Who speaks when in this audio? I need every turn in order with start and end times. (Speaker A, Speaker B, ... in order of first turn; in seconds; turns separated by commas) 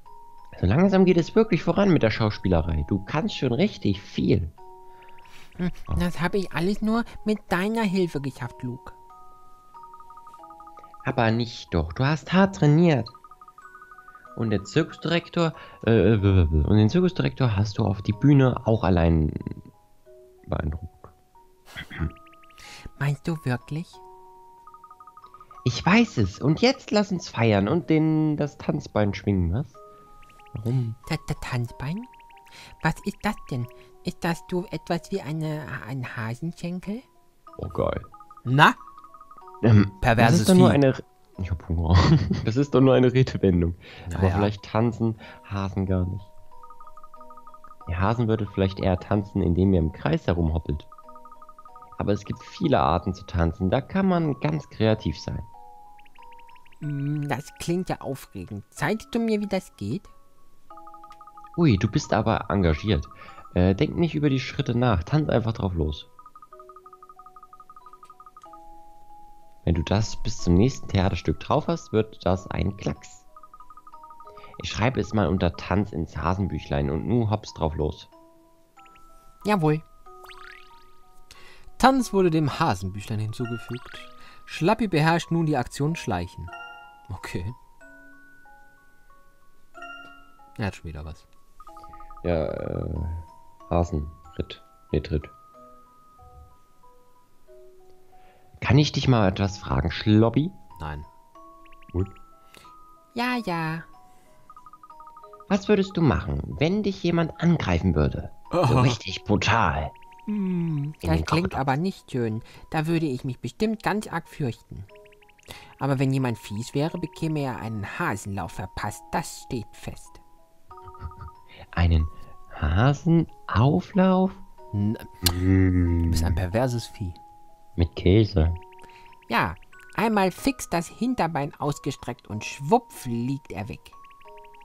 Speaker A: 0.5-4.5, Speaker B: 5.6-8.9, Speaker A: 11.0-13.1, Speaker A: 14.3-19.6, Speaker A: 20.4-21.1, Speaker B: 23.0-24.0, Speaker A: 25.6-29.8, Speaker A: 30.5-31.0, Speaker B: 31.1-32.1, Speaker B: 32.8-37.0, Speaker A: 37.6-38.1, Speaker B: 38.4-38.8, Speaker A: 39.6-46.3, Speaker B: 40.0-40.8, Speaker B: 44.1-44.5, Speaker A: 47.9-50.9, Speaker A: 52.0-55.5, Speaker B: 56.8-60.1, Speaker A: 61.5-66.1, Speaker A: 69.6-73.2, Speaker A: 74.6-78.1, Speaker B: 79.4-79.8, Speaker B: 81.8-86.5, Speaker B: 87.1-87.5, Speaker B: 90.6-91.2, Speaker A: 92.2-95.3, Speaker A: 98.6-100.5, Speaker B: 100.8-101.1, Speaker B: 103.1-103.9, Speaker A: 105.5-109.9, Speaker B: 108.5-109.0, Speaker B: 110.3-114.9, Speaker A: 111.0-111.6, Speaker B: 115.8-120.2, Speaker A: 121.7-124.4, Speaker B: 124.7-125.2, Speaker A: 125.2-126.4, Speaker B: 126.1-127.2, Speaker A: 127.8-128.6, Speaker B: 129.3-133.9